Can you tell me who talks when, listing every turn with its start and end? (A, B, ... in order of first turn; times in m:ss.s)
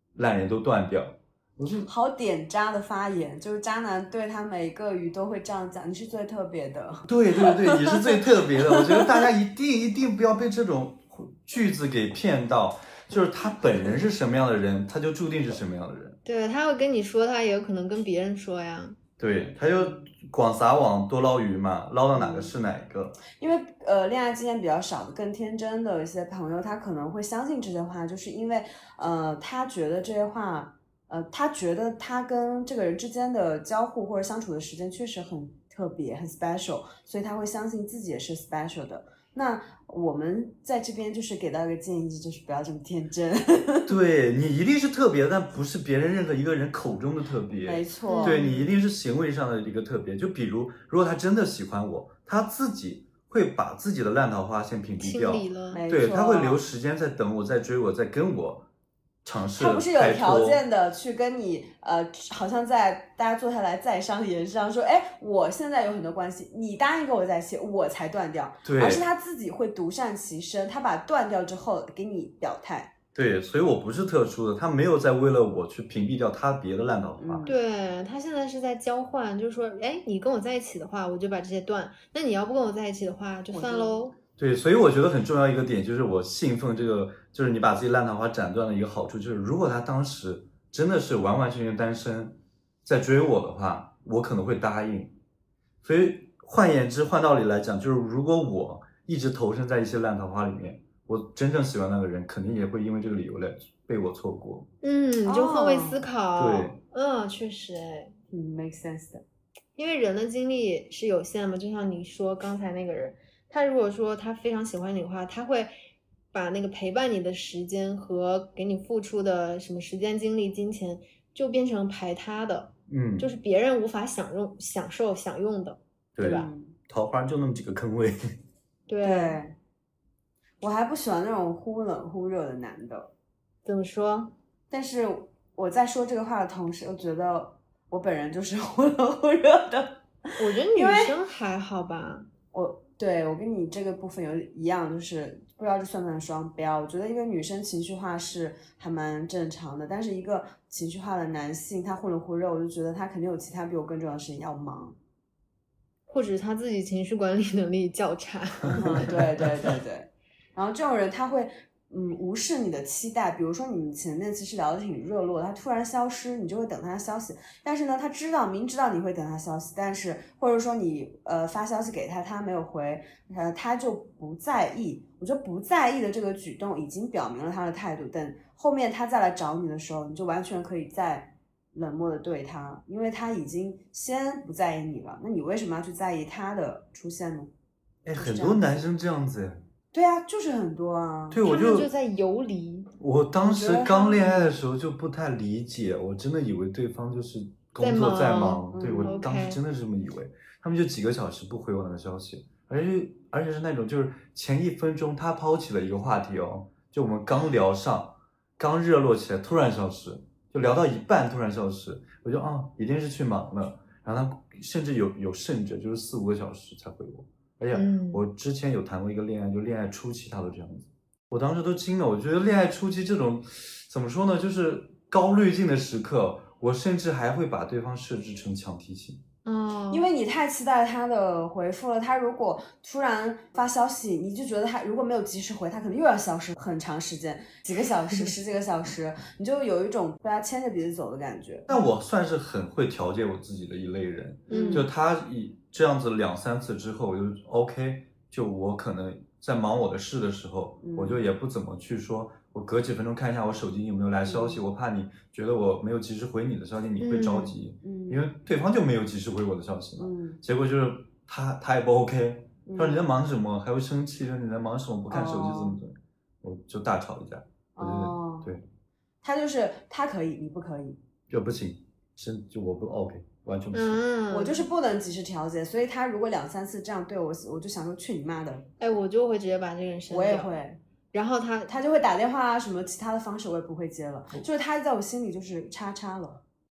0:00.2-0:01.9 A
0:01.8-0:08.1 B
0:07.1-0:16.2 A
0:08.7-0:09.2 B
0:16.2-0:19.0 C
0:19.2-0:23.2 A
0:19.7-0:20.1 B
0:22.2-0:22.5 B
0:23.4-0:43.9 B
0:43.9-0:58.7 A
0:47.6-0:48.5 B
0:48.1-0:48.7 C
0:55.0-0:55.8 C
0:55.7-0:56.6 B
0:59.2-1:00.6 A
0:59.6-1:13.0 B
1:08.6-1:09.1 A
1:13.2-1:17.5 A
1:17.2-1:17.6 B
1:17.5-1:24.2 C
1:23.5-1:24.0 B
1:24.4-1:35.2 A
1:35.8-1:44.7 A
1:44.8-1:48.1 C
1:45.3-1:46.1 B
1:46.4-1:46.8 A
1:48.3-1:49.2 B
1:49.8-1:55.7 C
1:56.3-2:06.5 C
2:02.9-2:03.3 A
2:06.2-2:08.4 A
2:06.2-2:06.8 B
2:08.9-2:09.4 C
2:09.0-2:09.6 B
2:10.6-2:13.1 B
2:13.6-2:14.4 C
2:14.7-2:21.2 B
2:20.4-2:22.3 C
2:22.5-2:35.0 B
2:36.1-2:39.2 C
2:38.7-2:39.2 A
2:38.7-3:07.5 B
3:08.0-3:09.6 A
3:08.2-3:08.8 B
3:09.9-3:11.4 B
3:11.3-3:11.9 A
3:11.4-3:12.9 C
3:13.0-3:49.2 A
3:13.4-3:14.5 B
3:17.8-3:19.6 C
3:18.7-3:19.2 B
3:37.7-3:38.2 C
3:49.4-3:50.1 C
3:49.9-4:01.7 B
4:01.7-4:28.6 A
4:04.5-4:04.9 C
4:04.5-4:04.9 B
4:10.8-4:11.2 B
4:14.2-4:14.6 B
4:17.0-4:17.6 C
4:17.8-4:18.2 B
4:20.0-4:20.4 B
4:22.7-4:23.1 B
4:25.1-4:25.8 B
4:27.8-4:28.5 B
4:29.2-4:31.0 B
4:31.3-4:34.0 A
4:33.7-4:34.7 C
4:34.3-4:38.7 B
4:38.8-4:40.5 C
4:40.1-4:40.8 B
4:41.1-4:41.7 C
4:41.7-4:46.4 B